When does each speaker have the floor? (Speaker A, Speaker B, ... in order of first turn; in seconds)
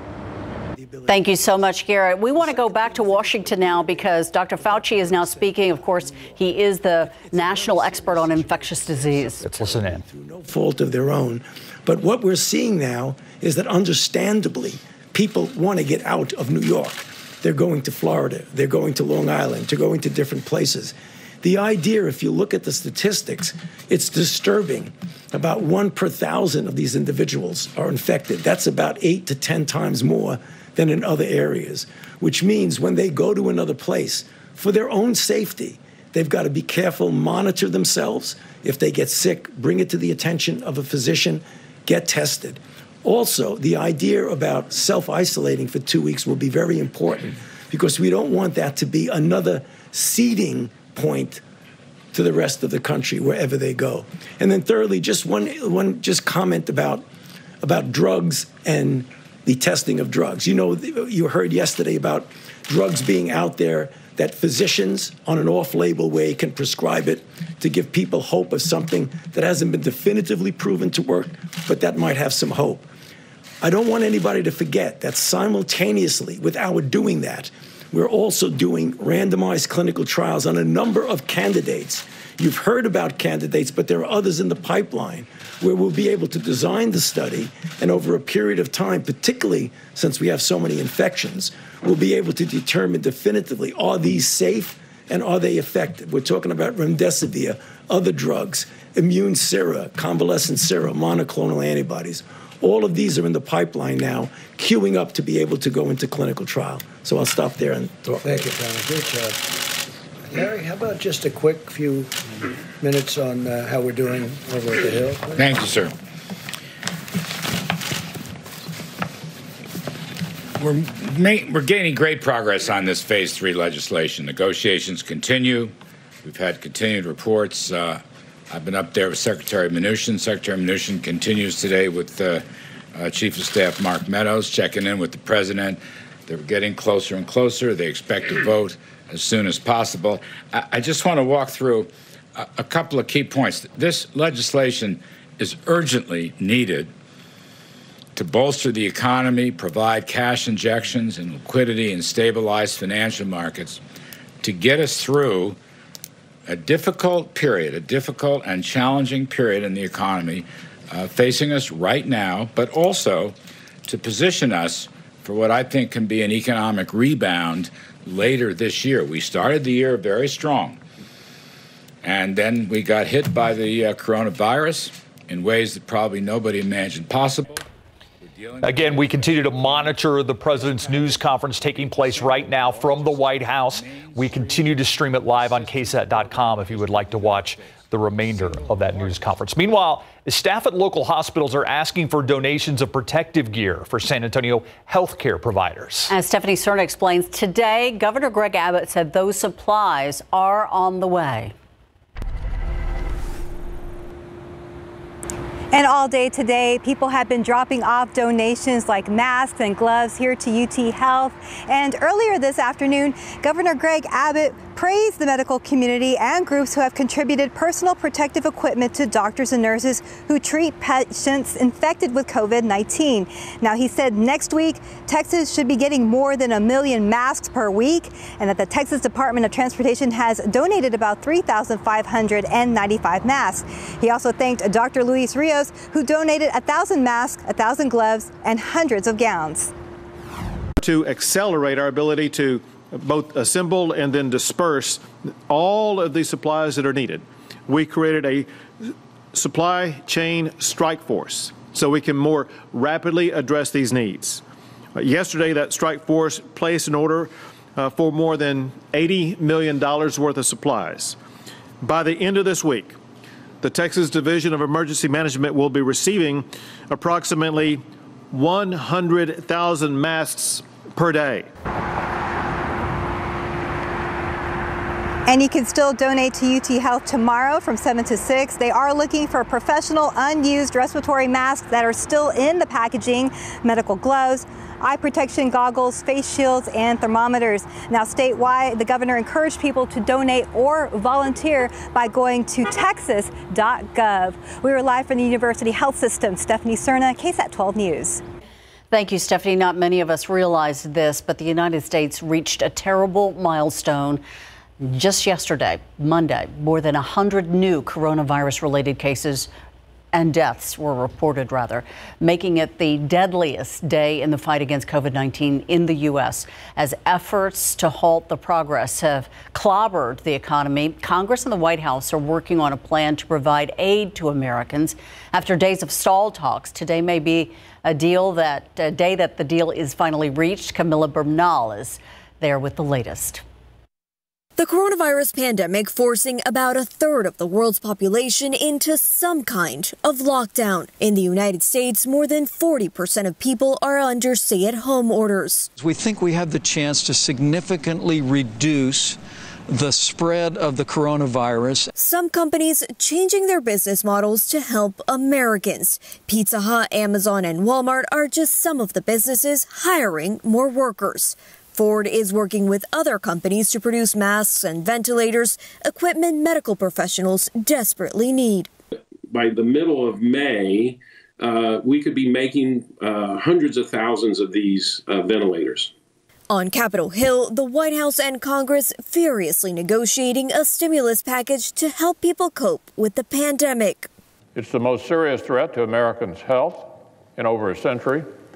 Speaker A: 0.7-51.4, 52.1-57.0, 57.6-72.9, 73.6-108.5
Speaker B: 1.1-9.5, 196.1-201.5, 298.9-304.2, 304.8-309.5, 310.1-333.4
Speaker C: 9.4-10.0, 178.6-196.1
Speaker D: 108.2-109.3, 110.3-112.1, 112.8-115.3
Speaker E: 115.3-115.9, 120.6-146.9, 148.1-153.8, 154.4-155.6, 156.5-170.8, 172.0-177.6, 178.2-179.9, 183.8-184.3
Speaker F: 205.7-239.7, 275.3-298.2
Speaker G: 240.8-254.4, 254.9-261.2, 261.8-263.0, 263.6-271.5
Speaker H: 334.6-345.7, 351.9-368.7, 376.5-384.1
Speaker I: 345.8-349.2, 349.7-351.9
Speaker J: 369.3-375.9
Speaker K: 384.5-388.3